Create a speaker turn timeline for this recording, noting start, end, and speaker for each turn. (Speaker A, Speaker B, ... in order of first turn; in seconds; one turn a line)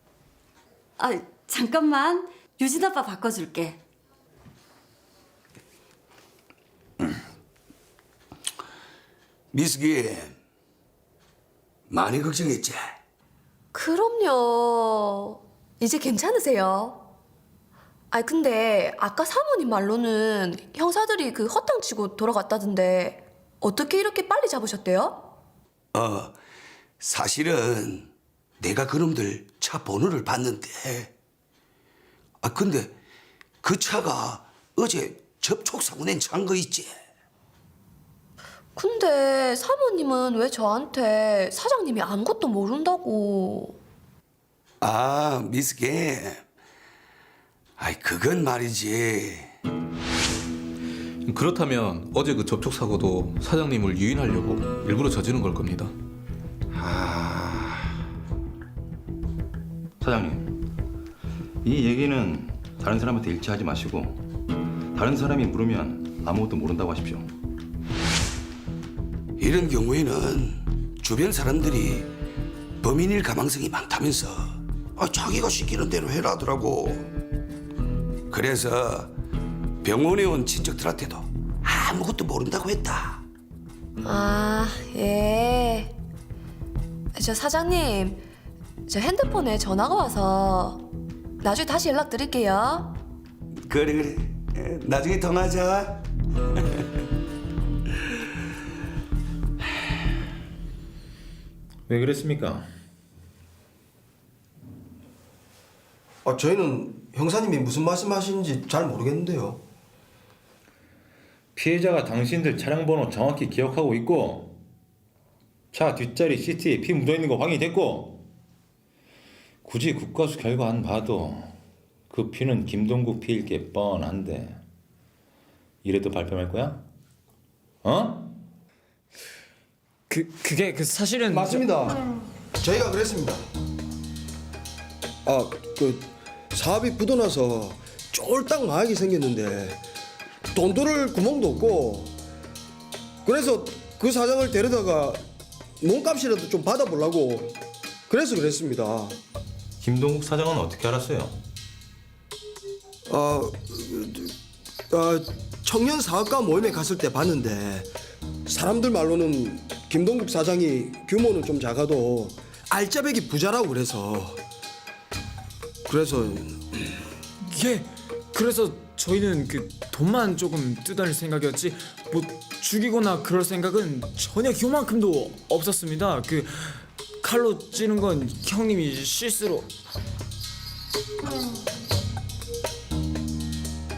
Speaker A: 1.0-3.8
Speaker B: 9.5-10.3
Speaker B: 11.9-12.8
Speaker C: 13.7-17.1
Speaker C: 18.1-25.3
Speaker B: 25.9-26.3
Speaker B: 27.0-31.1
Speaker B: 32.4-32.9
Speaker B: 33.6-36.9
Speaker C: 38.8-43.8
Speaker B: 44.8-46.4
Speaker B: 47.8-49.5
Speaker D: 51.2-55.9
Speaker B: 56.7-57.9
Speaker E: 60.0-60.5
Speaker E: 61.6-64.2
Speaker E: 64.9-67.3
Speaker B: 69.4-72.1
Speaker B: 72.8-77.1
Speaker B: 78.3-79.1
Speaker B: 79.8-83.2
Speaker C: 84.0-85.9
Speaker C: 87.2-88.2
Speaker C: 88.9-90.8
Speaker C: 91.4-93.0
Speaker B: 93.7-96.0
Speaker E: 101.9-102.7
Speaker F: 106.2-109.6
Speaker E: 111.5-114.6
Speaker E: 115.7-118.2
Speaker E: 119.6-121.5
Speaker E: 122.1-124.6
Speaker E: 125.8-126.8
Speaker E: 127.8-128.3
Speaker G: 130.1-131.8
Speaker F: 131.3-132.0
Speaker F: 132.6-133.5
Speaker F: 135.2-139.8
Speaker F: 140.5-142.1
Speaker F: 143.2-145.2
Speaker F: 145.8-147.6
Speaker F: 148.1-149.2
Speaker E: 149.8-151.4
Speaker F: 153.1-154.4
Speaker F: 154.9-157.9
Speaker F: 158.5-164.4
Speaker F: 165.9-166.8
Speaker G: 167.5-179.7